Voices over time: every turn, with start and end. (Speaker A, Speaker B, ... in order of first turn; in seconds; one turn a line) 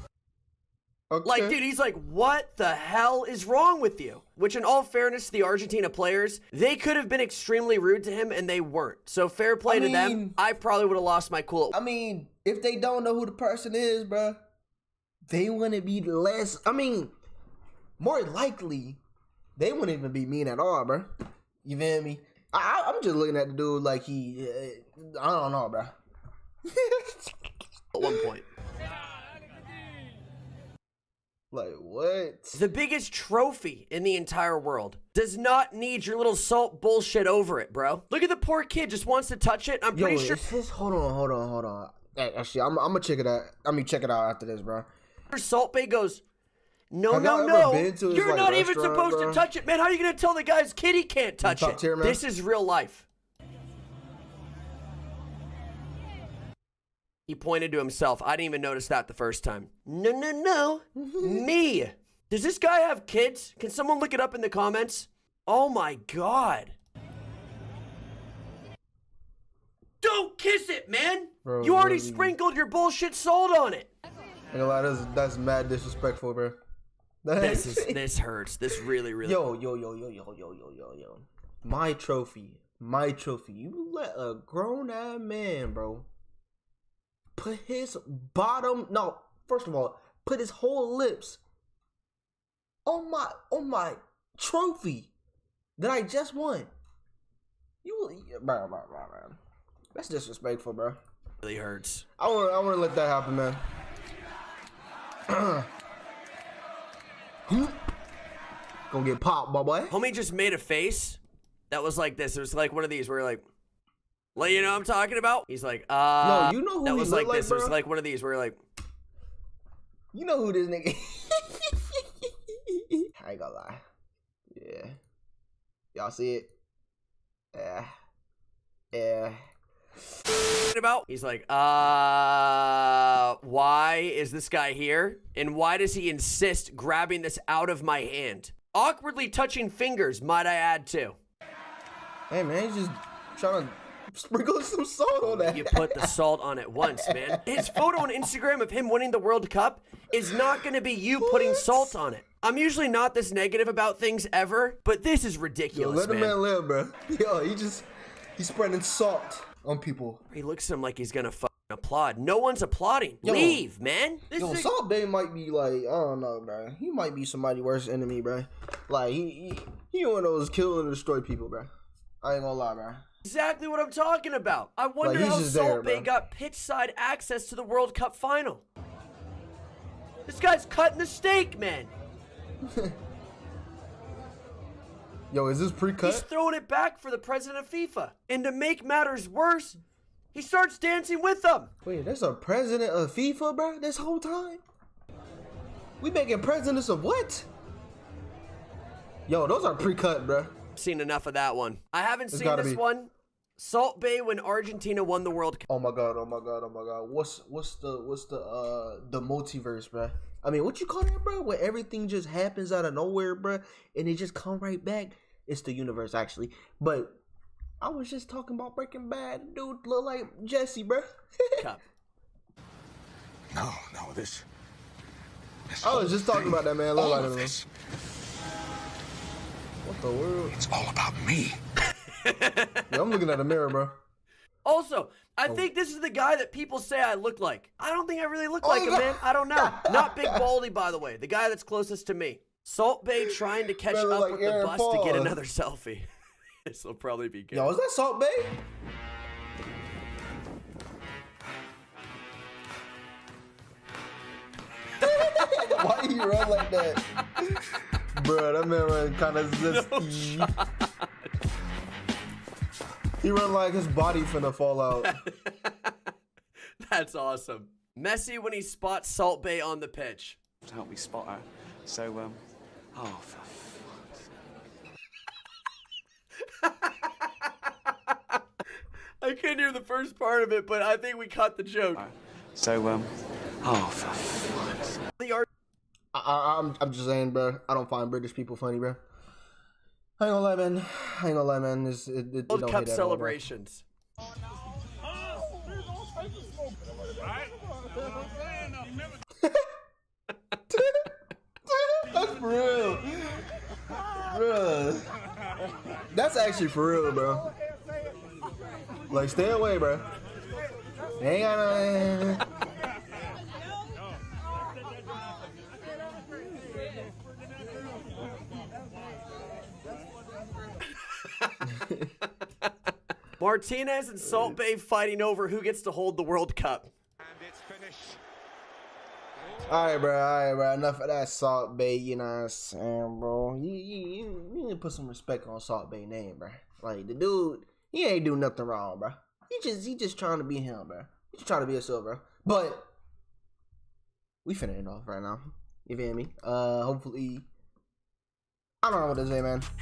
Speaker A: 1.1-1.6
Speaker B: 1.2-11.8
Speaker A: 9.7-10.4
Speaker A: 11.7-14.4
Speaker A: 15.3-17.1
Speaker A: 18.0-19.0
Speaker A: 19.6-21.1
Speaker A: 21.6-25.9
Speaker A: 26.7-27.4
Speaker B: 27.9-28.5
Speaker A: 31.5-32.6
Speaker B: 32.5-40.6
Speaker A: 39.9-44.9
Speaker B: 45.3-46.2
Speaker B: 46.9-53.0
Speaker A: 47.1-49.5
Speaker A: 51.4-52.2
Speaker B: 57.3-66.8
Speaker A: 61.0-61.5
Speaker B: 70.0-73.9
Speaker A: 71.5-72.3
Speaker A: 74.5-76.6
Speaker A: 77.2-78.0
Speaker B: 77.4-79.4
Speaker A: 79.2-86.1
Speaker A: 87.4-91.4
Speaker A: 92.9-95.1
Speaker A: 95.8-96.7
Speaker A: 97.8-99.4
Speaker A: 100.0-101.0
Speaker B: 101.4-102.0
Speaker A: 102.2-103.6
Speaker A: 105.3-105.7
Speaker A: 107.5-107.8
Speaker A: 108.9-110.0
Speaker B: 109.9-111.2
Speaker B: 111.7-113.4
Speaker B: 114.4-118.6
Speaker A: 116.2-117.8
Speaker A: 120.1-121.8
Speaker A: 122.9-123.8
Speaker A: 124.5-125.0
Speaker A: 125.9-126.5
Speaker A: 127.5-127.9
Speaker A: 128.9-129.4
Speaker B: 130.7-141.2
Speaker A: 142.3-146.1
Speaker B: 145.3-156.4
Speaker A: 146.9-147.8
Speaker A: 151.2-152.0
Speaker A: 155.7-160.2
Speaker B: 160.3-164.7
Speaker A: 163.2-163.6
Speaker A: 164.3-171.7
Speaker A: 172.2-173.1
Speaker B: 173.2-178.6
Speaker A: 175.0-176.1
Speaker B: 180.3-181.9
Speaker A: 182.7-182.9
Speaker A: 185.3-186.3
Speaker B: 186.0-189.8
Speaker B: 190.3-191.7
Speaker A: 191.8-194.6
Speaker A: 196.0-197.5
Speaker A: 199.3-200.5
Speaker B: 200.8-205.7
Speaker A: 202.3-202.8
Speaker A: 205.7-217.2
Speaker A: 217.8-221.6
Speaker C: 223.5-224.4
Speaker C: 225.7-227.6
Speaker A: 225.8-227.6
Speaker A: 229.8-230.6
Speaker C: 230.6-231.6
Speaker B: 232.1-232.8
Speaker A: 232.9-234.0
Speaker B: 234.7-246.1
Speaker A: 238.6-240.5
Speaker A: 243.2-245.4
Speaker B: 246.7-247.7
Speaker A: 247.5-248.6
Speaker A: 255.0-257.0
Speaker A: 258.1-260.5
Speaker B: 259.7-260.9
Speaker A: 263.2-265.2
Speaker B: 265.0-265.9
Speaker B: 266.8-270.4
Speaker D: 270.6-272.4
Speaker D: 272.9-274.1
Speaker B: 276.6-277.3
Speaker B: 279.2-282.0
Speaker D: 281.9-285.0
Speaker B: 285.2-285.5
Speaker A: 286.1-289.0
Speaker A: 290.2-293.4
Speaker B: 292.5-293.8
Speaker A: 300.7-301.1
Speaker A: 301.7-303.4
Speaker A: 304.2-305.0
Speaker A: 306.1-307.5
Speaker A: 309.1-310.0
Speaker A: 311.2-312.4
Speaker B: 321.2-321.6
Speaker A: 321.7-322.1
Speaker B: 323.4-326.9
Speaker A: 324.3-324.5
Speaker A: 329.6-342.9
Speaker A: 344.4-347.5
Speaker A: 348.8-349.7